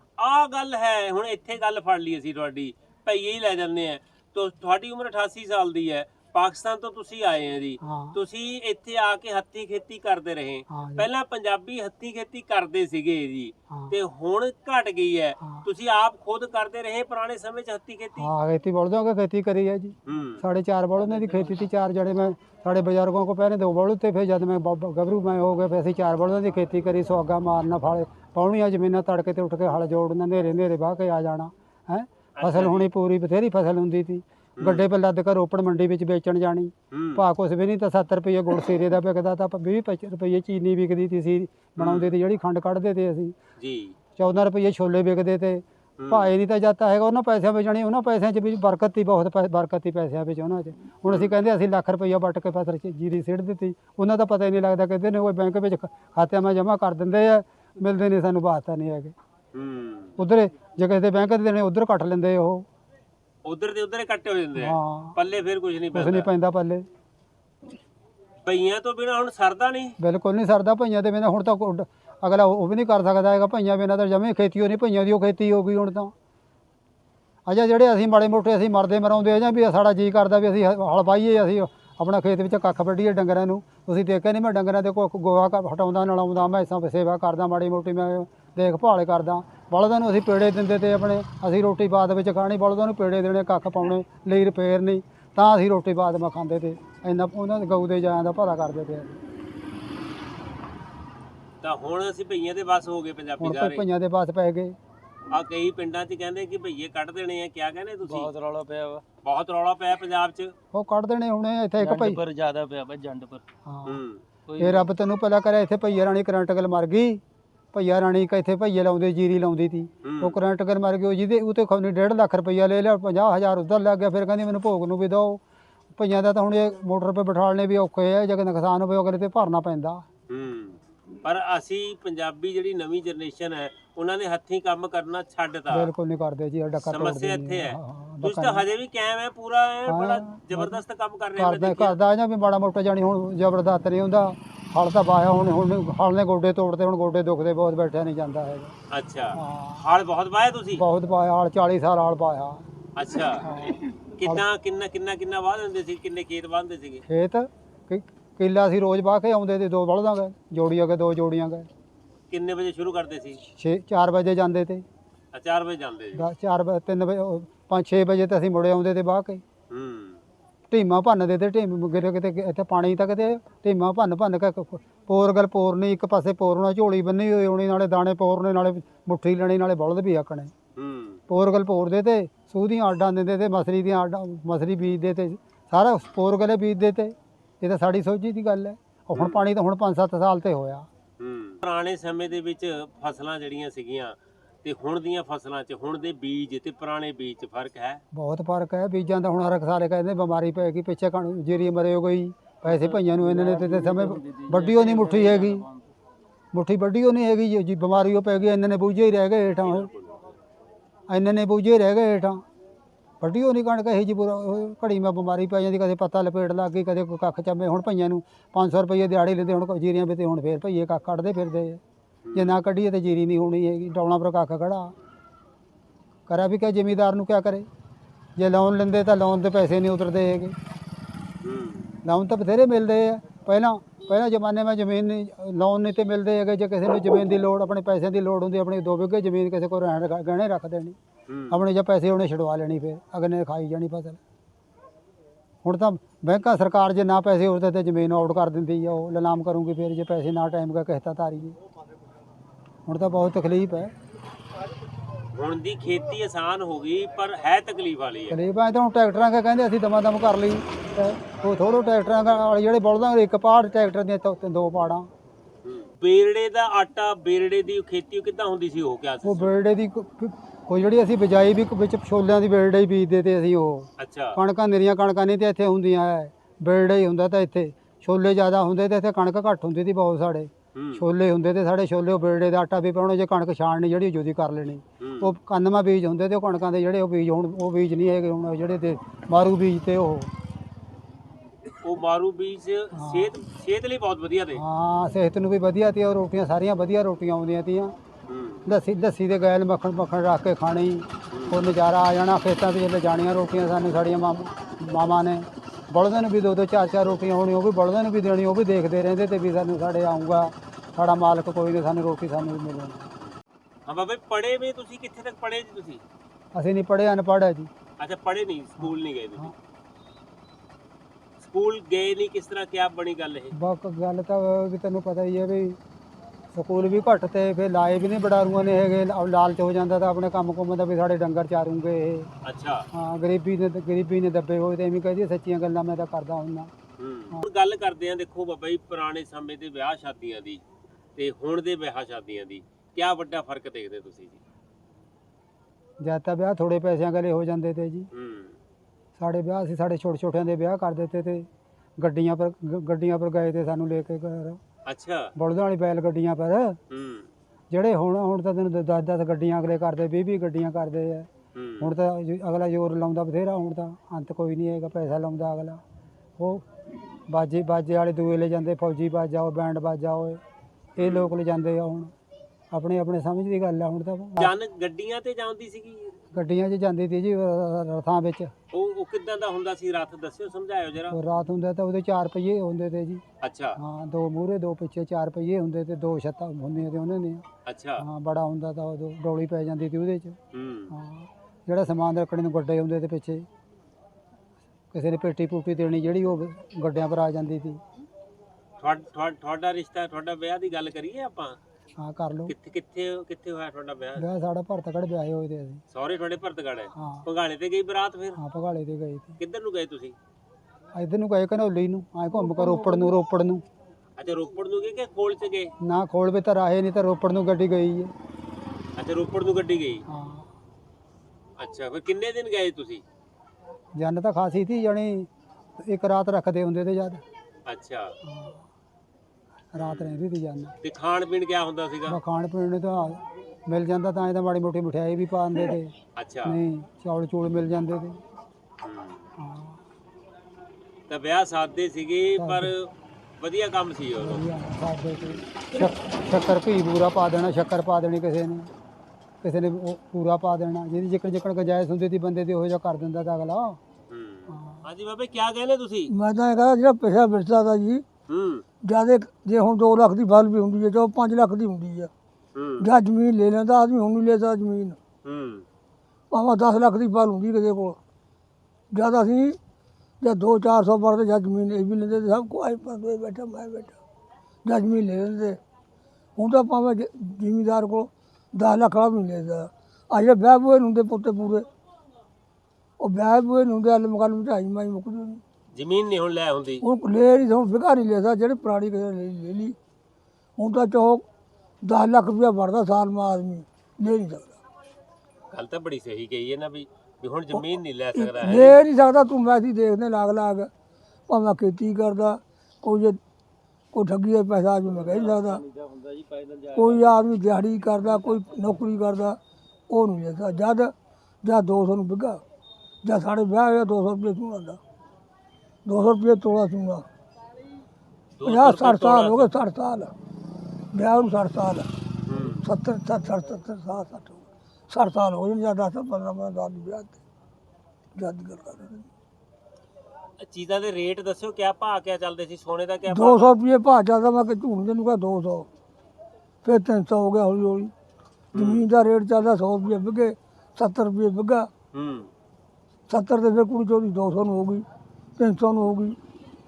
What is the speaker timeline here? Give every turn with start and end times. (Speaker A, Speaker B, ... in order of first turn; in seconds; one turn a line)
Speaker A: 0.2-18.3
Speaker B: 7.8-8.2
Speaker B: 10.7-11.1
Speaker B: 18.2-43.3
Speaker A: 20.1-20.4
Speaker A: 32.3-32.9
Speaker A: 34.6-34.9
Speaker A: 36.9-37.2
Speaker A: 41.8-42.1
Speaker A: 43.6-43.9
Speaker B: 44.2-59.1
Speaker A: 46.0-46.3
Speaker A: 51.0-51.4
Speaker A: 59.5-60.2
Speaker B: 60.2-62.6
Speaker A: 63.4-66.3
Speaker B: 64.6-65.2
Speaker B: 65.9-66.8
Speaker A: 68.4-70.0
Speaker B: 70.0-76.1
Speaker B: 77.5-99.2
Speaker A: 101.6-103.8
Speaker B: 103.4-104.8
Speaker A: 105.3-108.3
Speaker C: 108.1-109.0
Speaker A: 109.2-110.5
Speaker B: 110.7-112.2
Speaker C: 111.8-113.4
Speaker B: 113.7-114.0
Speaker A: 113.8-114.2
Speaker C: 114.5-114.8
Speaker B: 114.6-117.2
Speaker B: 117.7-125.4
Speaker A: 120.0-120.4
Speaker B: 126.0-130.1
Speaker A: 130.3-135.9
Speaker B: 135.7-138.7
Speaker A: 136.8-142.0
Speaker B: 139.9-140.8
Speaker B: 141.3-148.7
Speaker A: 148.9-150.8
Speaker B: 149.3-149.8
Speaker B: 150.8-152.6
Speaker A: 152.9-153.5
Speaker B: 153.3-154.4
Speaker A: 154.2-157.0
Speaker B: 157.1-161.7
Speaker A: 162.3-163.4
Speaker B: 163.4-164.8
Speaker A: 165.3-166.3
Speaker B: 166.2-169.4
Speaker A: 169.7-170.2
Speaker B: 170.7-180.5
Speaker A: 180.8-181.2
Speaker B: 181.3-190.9
Speaker A: 189.1-189.4
Speaker A: 191.2-198.0
Speaker B: 198.1-205.7
Speaker C: 203.1-205.8
Speaker B: 206.5-209.9
Speaker A: 209.6-210.4
Speaker B: 211.1-212.4
Speaker B: 213.2-221.8
Speaker A: 222.2-222.6
Speaker B: 222.3-224.9
Speaker B: 226.3-227.7
Speaker B: 228.4-230.6
Speaker A: 231.4-231.9
Speaker B: 232.0-241.0
Speaker A: 241.3-241.6
Speaker B: 241.5-244.2
Speaker B: 245.6-251.6
Speaker B: 252.9-253.9
Speaker A: 255.3-258.4
Speaker B: 258.3-265.1
Speaker A: 265.6-269.5
Speaker B: 269.2-290.3
Speaker A: 274.0-274.4
Speaker A: 280.7-281.1
Speaker A: 285.0-285.3
Speaker A: 291.7-294.6
Speaker B: 292.9-293.3
Speaker B: 294.5-297.9
Speaker A: 298.3-298.6
Speaker B: 298.6-313.1
Speaker A: 301.3-301.6
Speaker A: 313.9-316.0
Speaker B: 316.5-317.7
Speaker A: 318.0-319.5
Speaker B: 318.8-319.5
Speaker A: 321.4-323.6
Speaker B: 323.5-325.8
Speaker B: 326.5-332.3
Speaker A: 332.4-332.9
Speaker B: 332.9-336.7
Speaker A: 337.0-340.6
Speaker A: 341.1-344.4
Speaker B: 346.0-348.1
Speaker A: 348.1-348.6
Speaker B: 349.2-351.5
Speaker B: 352.0-354.6
Speaker A: 354.9-355.3
Speaker B: 355.4-356.8
Speaker A: 356.9-357.3
Speaker B: 357.7-361.3
Speaker A: 361.5-361.9
Speaker B: 361.8-365.8
Speaker B: 366.4-366.6
Speaker B: 367.3-370.4
Speaker B: 370.9-372.1
Speaker A: 371.0-371.3
Speaker B: 372.7-374.5
Speaker A: 374.4-376.1
Speaker B: 376.3-378.5
Speaker A: 378.7-381.2
Speaker B: 381.1-383.2
Speaker A: 383.4-383.8
Speaker B: 383.8-387.4
Speaker A: 387.6-388.1
Speaker B: 388.0-390.4
Speaker A: 390.5-390.9
Speaker B: 390.9-393.5
Speaker B: 394.9-397.8
Speaker A: 398.8-401.6
Speaker B: 402.0-402.5
Speaker A: 402.5-404.2
Speaker B: 404.2-405.8
Speaker A: 405.9-408.4
Speaker B: 406.9-407.2
Speaker B: 408.3-409.4
Speaker A: 409.4-410.1
Speaker B: 410.9-413.6
Speaker A: 414.2-415.7
Speaker B: 415.8-418.1
Speaker A: 419.0-420.1
Speaker B: 420.1-420.5
Speaker A: 421.6-423.0
Speaker B: 423.9-427.2
Speaker A: 427.6-428.1
Speaker B: 428.2-428.6
Speaker B: 429.7-430.7
Speaker A: 429.8-430.2
Speaker A: 430.8-432.2
Speaker B: 432.1-435.9
Speaker A: 436.1-436.6
Speaker B: 436.4-438.2
Speaker A: 438.8-439.3
Speaker B: 439.4-439.8
Speaker A: 441.1-444.4
Speaker B: 442.4-442.7
Speaker B: 444.2-448.7
Speaker B: 449.4-453.8
Speaker A: 454.1-456.1
Speaker B: 454.5-454.8
Speaker D: 456.1-458.0
Speaker A: 458.3-458.6
Speaker D: 458.8-462.1
Speaker A: 462.5-462.9
Speaker D: 462.8-465.0
Speaker A: 465.2-465.6
Speaker D: 466.3-467.9
Speaker D: 468.9-469.6
Speaker D: 470.2-473.9
Speaker D: 474.6-475.6
Speaker D: 476.4-481.6
Speaker D: 483.0-485.4
Speaker A: 485.7-486.8
Speaker D: 486.8-489.7
Speaker D: 490.6-491.2
Speaker D: 491.8-494.5
Speaker A: 495.5-498.8
Speaker D: 498.1-500.7
Speaker D: 501.3-503.2
Speaker D: 503.9-505.6
Speaker C: 505.1-507.1
Speaker D: 506.7-509.4
Speaker D: 509.9-510.9
Speaker D: 511.4-512.4
Speaker D: 513.0-514.8
Speaker D: 515.9-517.0
Speaker A: 518.4-519.5
Speaker D: 518.4-520.1
Speaker D: 520.9-521.9
Speaker A: 522.2-522.7
Speaker D: 522.6-527.1
Speaker D: 528.1-529.0
Speaker A: 530.4-533.5
Speaker D: 533.1-535.7
Speaker D: 536.6-537.9
Speaker A: 538.5-538.9
Speaker D: 538.6-541.7
Speaker A: 541.9-542.3
Speaker D: 543.1-544.8
Speaker D: 545.4-546.1